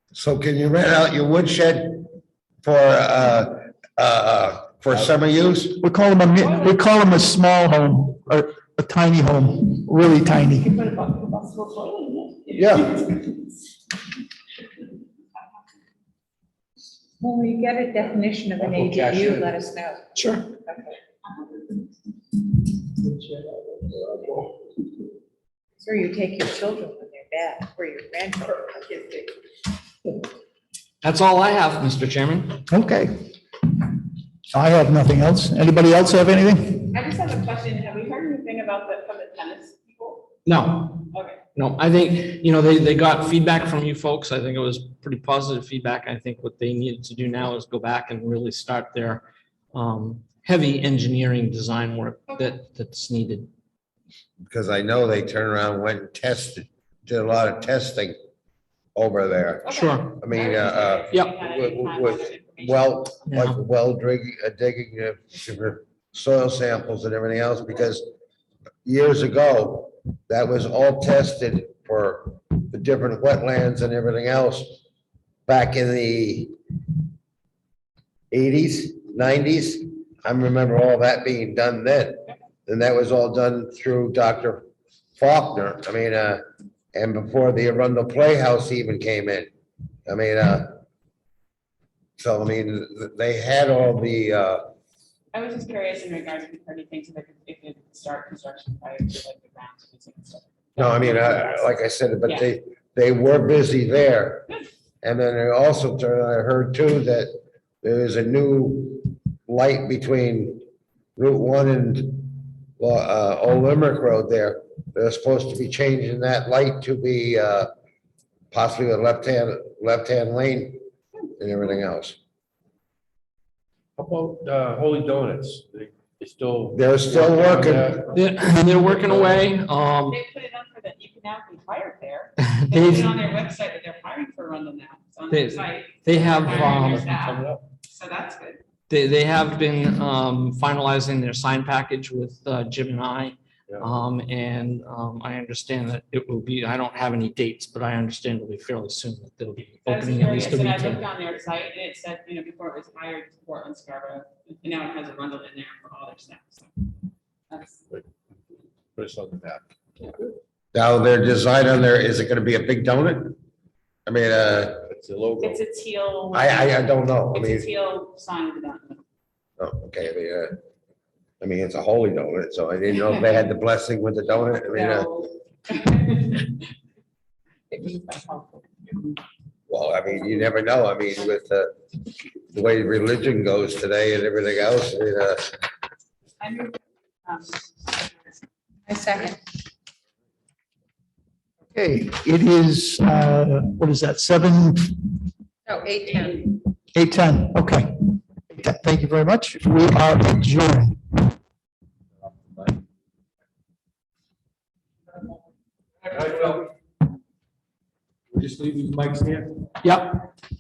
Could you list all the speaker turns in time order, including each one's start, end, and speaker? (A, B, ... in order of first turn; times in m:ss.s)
0:00.1-0:02.1 A
0:02.6-0:05.8 A
0:05.8-0:10.8 B
0:06.4-0:06.8 C
0:10.7-0:13.3 C
0:12.6-0:13.0 A
0:17.2-0:20.0 D
0:18.6-0:19.6 E
0:20.1-0:20.5 F
0:20.6-0:21.0 D
0:23.2-0:24.4 E
0:25.8-0:29.3 D
0:31.0-0:32.6 F
0:32.7-0:33.2 B
0:34.5-0:36.8 B
0:36.8-0:40.3 C
0:40.4-0:53.5 F
0:41.1-0:41.4 C
0:54.5-0:58.2 A
0:59.0-1:08.1 A
0:59.6-1:03.2 C
0:59.7-1:00.1 F
1:03.3-1:03.6 F
1:08.8-1:14.8 A
1:15.5-1:16.5 A
1:18.3-1:24.6 A
1:25.2-1:26.4 A
1:26.9-1:29.5 A
1:30.1-1:30.8 A
1:32.2-1:34.6 A
1:35.3-1:41.7 C
1:40.8-1:44.5 A
1:45.0-1:47.3 A
1:47.8-1:50.6 A
1:51.2-1:57.7 A
1:58.5-2:00.8 A
2:01.4-2:02.2 A
2:04.0-2:09.5 E
2:06.7-2:08.0 A
2:08.1-2:10.2 F
2:10.1-2:18.6 C
2:12.4-2:13.2 F
2:15.3-2:17.1 F
2:16.2-2:17.6 E
2:18.9-2:31.1 F
2:29.8-2:36.7 C
2:37.5-2:37.8 C
2:39.0-2:39.6 E
2:40.7-2:43.4 A
2:44.1-2:44.9 A
2:44.9-2:45.6 E
2:45.4-2:49.0 C
2:46.3-2:47.7 A
2:49.6-2:50.5 A
2:51.4-2:55.1 A
2:54.7-2:56.6 C
2:57.7-2:59.2 C
2:59.7-3:01.7 A
3:02.5-3:05.6 A
3:06.4-3:08.1 C
3:08.9-3:09.4 D
3:11.7-3:15.1 B
3:15.7-3:16.5 D
3:16.9-3:21.3 B
3:22.5-3:22.8 E
3:26.0-3:26.6 E
3:28.3-3:29.7 E
3:29.8-3:30.2 F